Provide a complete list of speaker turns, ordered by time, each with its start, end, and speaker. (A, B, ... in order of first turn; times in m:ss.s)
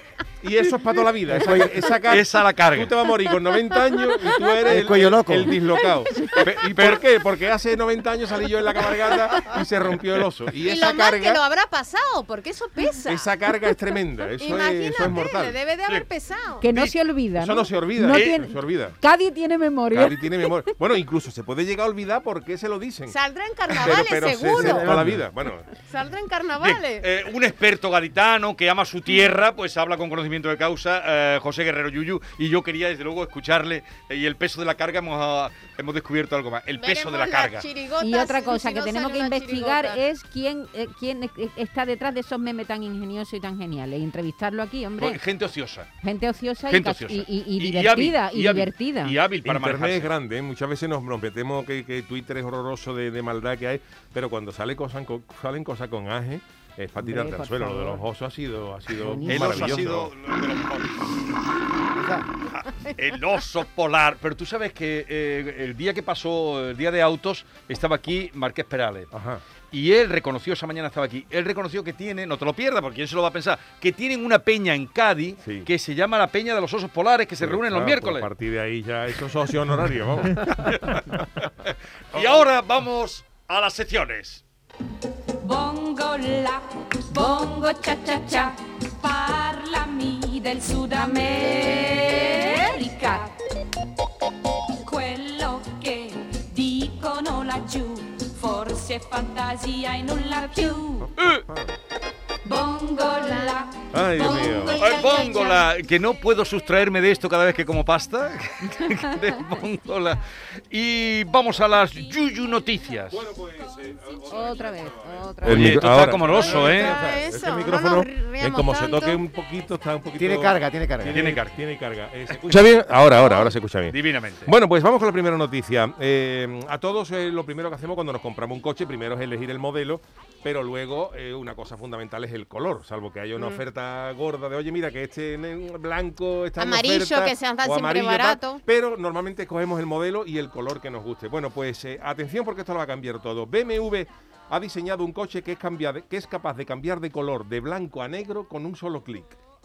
0:00.4-0:11.4 A
0:01.3-0:01.6 B
0:01.4-0:02.9 C
0:04.6-0:05.6 B
0:06.5-0:07.0 C
0:10.6-0:13.3 D
0:13.0-0:15.6 A
0:14.4-0:16.6 D
0:16.6-0:20.7 E
0:16.6-0:16.9 C
0:17.4-0:19.0 A
0:18.1-0:18.4 C
0:19.9-0:23.2 A
0:23.1-0:24.9 D
0:23.8-0:25.7 A
0:24.6-0:25.1 B
0:24.8-0:25.2 C
0:25.8-0:27.1 D
0:26.6-0:37.7 C
0:36.8-0:40.0 D
0:38.0-0:45.2 E
0:45.0-0:45.9 C
0:46.0-0:49.2 E
0:46.7-0:50.1 C
0:49.4-1:00.1 A
0:57.0-0:58.0 E
0:59.0-0:59.8 E
0:59.2-1:01.1 C
1:01.9-1:02.3 B
1:02.5-1:09.1 C
1:09.1-1:09.4 A
1:09.7-1:18.3 C
1:17.4-1:21.2 A
1:20.4-1:24.4 C
1:22.1-1:22.4 A
1:25.4-1:33.3 F
1:34.8-1:41.1 F
1:41.0-1:41.8 A
1:41.2-1:41.4 C
1:42.4-1:47.0 F
1:43.9-1:44.8 A
1:44.8-1:53.2 C
1:53.1-2:29.4 A
1:54.3-1:55.8 E
1:55.4-1:57.0 C
1:56.3-1:59.2 D
2:00.2-2:01.4 B
2:01.0-2:01.6 C
2:02.3-2:02.6 C
2:03.9-2:04.5 C
2:16.6-2:18.6 D